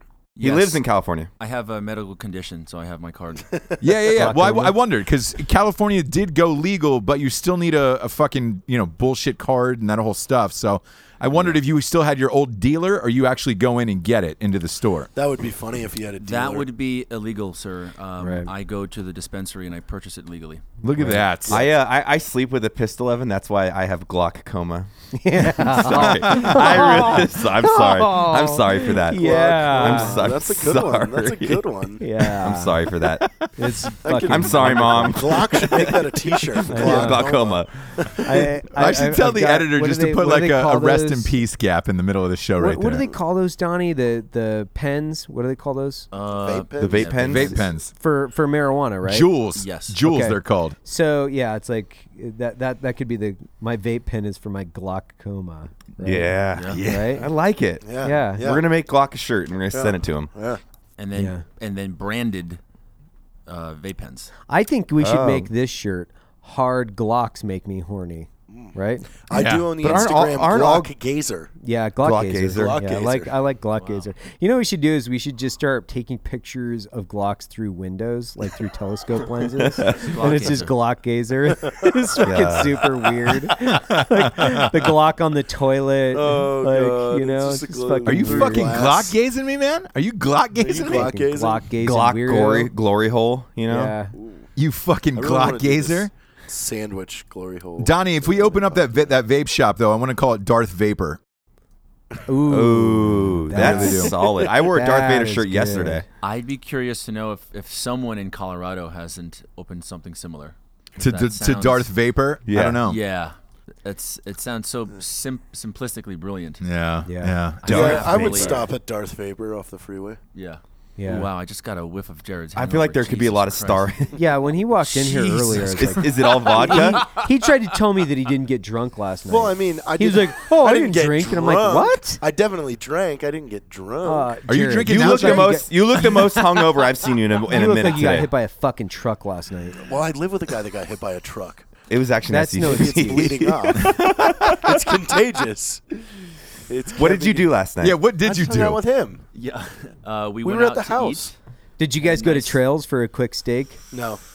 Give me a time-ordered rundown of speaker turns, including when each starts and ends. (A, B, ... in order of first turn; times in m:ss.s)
0:00.4-0:00.8 A
0:00.4-0:01.3 B
0:01.4-0:03.6 A
0:03.8-0:15.1 C
0:04.2-0:04.7 D
0:15.1-0:16.7 E
0:16.2-0:20.6 A
0:18.2-0:18.5 D
0:20.8-0:21.7 C
0:21.0-0:21.2 D
0:21.4-0:24.9 B
0:25.1-0:30.2 D
0:25.5-0:33.3 B
0:26.0-0:26.8 A
0:29.1-0:32.1 E
0:32.0-0:32.9 D
0:33.0-0:33.8 C
0:33.6-0:35.2 D
0:34.0-0:38.2 E
0:34.2-0:37.9 B
0:36.7-0:37.4 D
0:38.2-0:41.4 D
0:38.7-0:43.1 C
0:42.6-0:46.1 D
0:46.1-0:47.7 A
0:46.4-0:47.3 E
0:46.8-0:47.6 B
0:47.2-0:47.9 C
0:47.9-0:49.3 D
0:49.0-0:50.8 C
0:49.6-0:50.0 A
0:50.0-0:57.3 D
0:56.0-1:00.3 B
0:56.5-0:56.8 A
0:56.7-0:57.1 C
0:57.8-0:58.7 E
0:58.0-0:58.5 D
0:59.7-1:00.6 E
1:01.0-1:02.6 A
1:01.1-1:01.4 D
1:03.5-1:04.3 A
1:04.5-1:09.1 D
1:05.0-1:05.5 B
1:08.5-1:11.5 E
1:09.3-1:09.8 C
1:09.8-1:10.9 B
1:11.6-1:28.8 D
1:12.0-1:12.8 B
1:12.5-1:13.3 E
1:13.8-1:14.1 A
1:19.7-1:20.1 B
1:19.8-1:20.7 A
1:22.2-1:22.8 B
1:24.3-1:24.7 C
1:26.1-1:29.1 E
1:28.0-1:31.1 C
1:30.6-1:31.7 E
1:30.8-1:32.7 D
1:31.8-1:33.9 B
1:33.6-1:34.1 D
1:34.1-1:34.5 E
1:34.6-1:36.1 C
1:35.1-1:38.9 E
1:37.8-1:41.2 C
1:42.3-1:46.0 D
1:42.5-1:46.0 B
1:43.5-1:44.1 C
1:46.2-1:51.9 A
1:51.0-1:53.0 C
1:52.5-1:52.8 B
1:52.6-1:56.7 A
1:56.6-1:58.2 C
1:57.0-1:57.4 D
1:57.6-1:58.7 A
1:57.6-1:58.6 B
1:57.6-2:00.2 E
2:00.3-2:03.9 A
2:01.0-2:01.3 D
2:02.5-2:04.2 B
2:04.2-2:12.2 D
2:04.8-2:07.3 A
2:05.7-2:07.1 B
2:09.3-2:14.4 E
2:14.0-2:16.5 D
2:14.5-2:15.7 C
2:14.8-2:18.3 B
2:17.5-2:19.8 D
2:19.8-2:21.7 E
2:21.9-2:24.6 B
2:22.3-2:23.4 D
2:22.6-2:25.9 E
2:24.5-2:24.7 C
2:26.7-2:27.5 E
2:27.0-2:28.0 B
2:27.8-2:28.8 C
2:28.1-2:29.2 E
2:29.3-2:31.3 A
2:30.4-2:31.3 E
2:31.8-2:33.8 D
2:32.0-2:32.6 A
2:33.9-2:34.2 E